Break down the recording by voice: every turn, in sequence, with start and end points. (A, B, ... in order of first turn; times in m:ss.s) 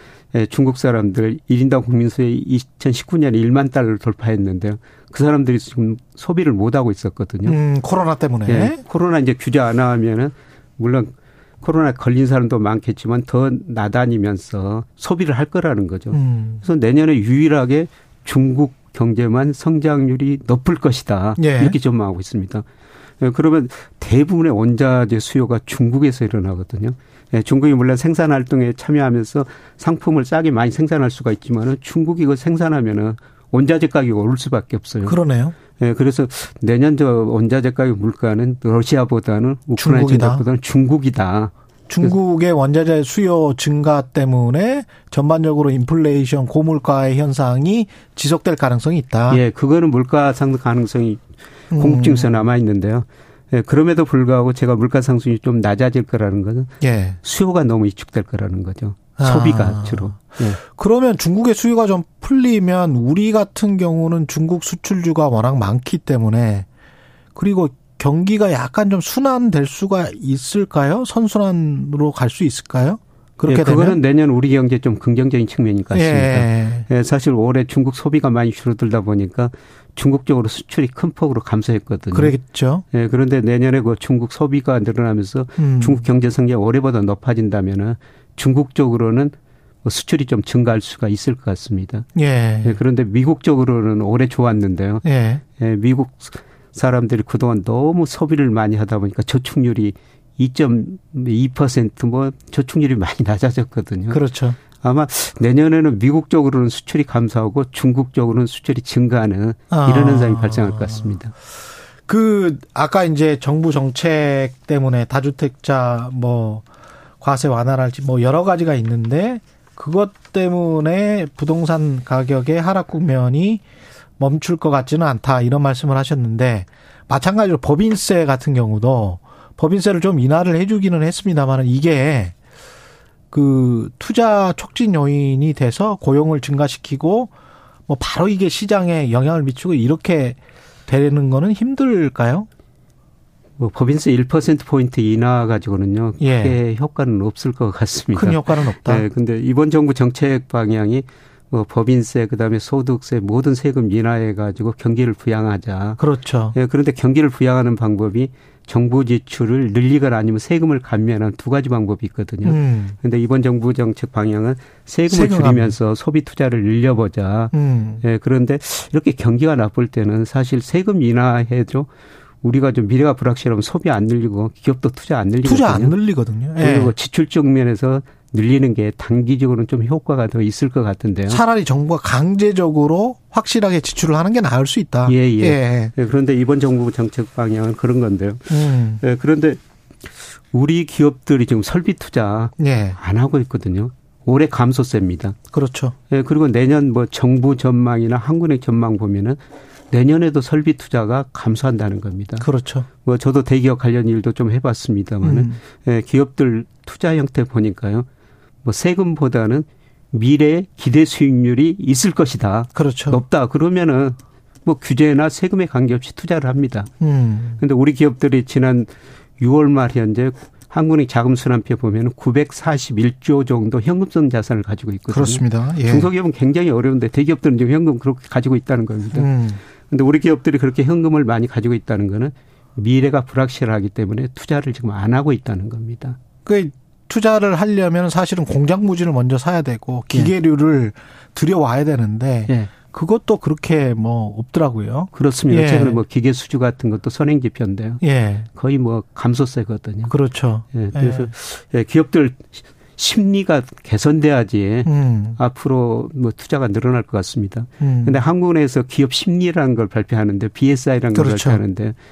0:00.3-0:07.6 A
0:07.4-0:08.8 B
0:08.4-0:22.6 A
0:16.1-0:16.6 B
0:21.4-0:21.7 B
0:23.2-0:35.2 A
0:35.0-0:35.6 B
0:35.7-0:42.1 A
0:39.8-0:40.4 B
0:41.9-0:49.4 B
0:49.3-1:00.6 A
0:51.7-0:52.3 B
0:56.8-0:57.2 B
0:59.2-1:06.7 B
1:07.3-1:14.0 B
1:13.4-1:22.4 A
1:15.9-1:16.8 B
1:22.1-1:22.8 B
1:22.9-1:29.3 A
1:25.6-1:26.0 B
1:29.8-1:32.0 A
1:32.1-1:32.8 B
1:32.6-1:44.2 A
1:35.0-1:35.4 B
1:44.1-1:44.6 B
1:44.7-1:51.3 A
1:49.7-1:51.1 B
1:52.0-1:56.6 B
1:57.2-2:03.6 B
2:04.2-2:12.3 B
2:13.3-2:17.3 B
2:17.9-2:22.5 B
2:23.6-2:36.0 A
2:26.2-2:26.6 B
2:28.1-2:29.0 B
2:36.0-2:36.5 B
2:36.5-2:51.9 A
2:42.4-2:43.0 B
2:45.1-2:45.8 B
2:47.5-2:48.0 B
2:52.4-2:56.0 A
2:55.4-2:56.9 B
2:56.6-3:01.4 A
3:01.3-3:05.9 B
3:05.0-3:15.4 A
3:08.5-3:09.0 B
3:12.6-3:13.0 B
3:15.5-3:15.9 B
3:16.1-3:19.4 A
3:19.9-3:22.5 A
3:22.4-3:22.9 B
3:23.0-3:28.1 A
3:25.2-3:25.6 B
3:28.6-3:36.9 A
3:32.7-3:33.2 B
3:37.0-3:37.6 B
3:37.6-3:49.3 A
3:45.1-3:46.1 B
3:49.1-3:49.6 B
3:49.9-3:56.2 A
3:56.4-4:06.0 B
4:05.1-4:08.0 A
4:08.0-4:08.5 B
4:08.5-4:10.1 A
4:10.1-4:11.3 B
4:10.7-4:22.0 A
4:14.8-4:15.4 B
4:17.8-4:18.2 B
4:21.1-4:21.6 B